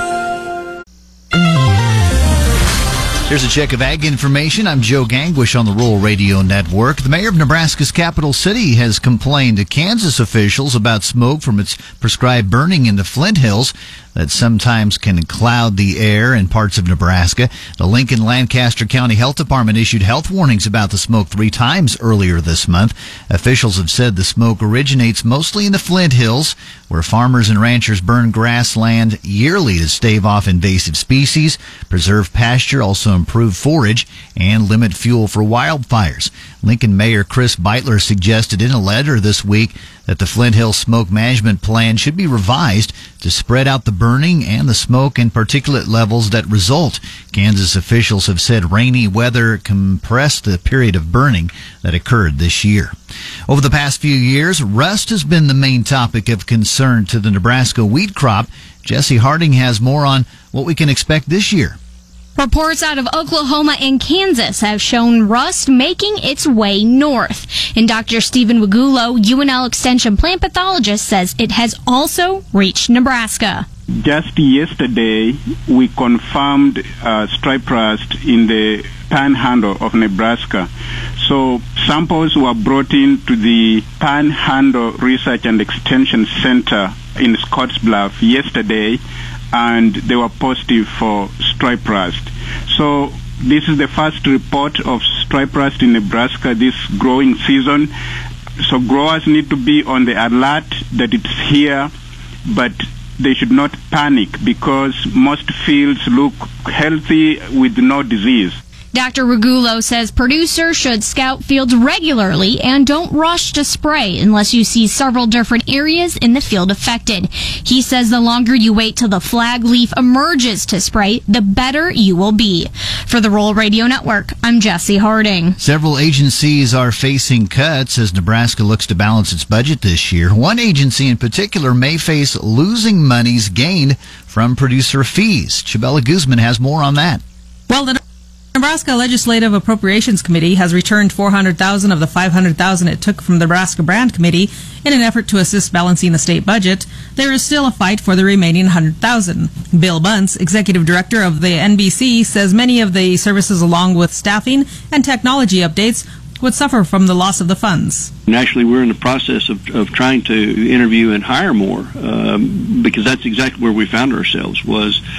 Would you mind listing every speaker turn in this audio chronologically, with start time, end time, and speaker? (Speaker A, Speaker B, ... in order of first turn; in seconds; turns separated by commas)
Speaker A: 3.3-52.9, Speaker A: 53.5-61.8, Speaker B: 62.4-73.7, Speaker C: 74.0-89.0, Speaker C: 89.5-97.9, Speaker C: 98.6-101.9, Speaker C: 102.5-108.6, Speaker B: 108.9-125.6, Speaker A: 125.6-137.2, Speaker D: 137.7-138.0, Speaker D: 138.5-158.1, Speaker E: 158.3-165.0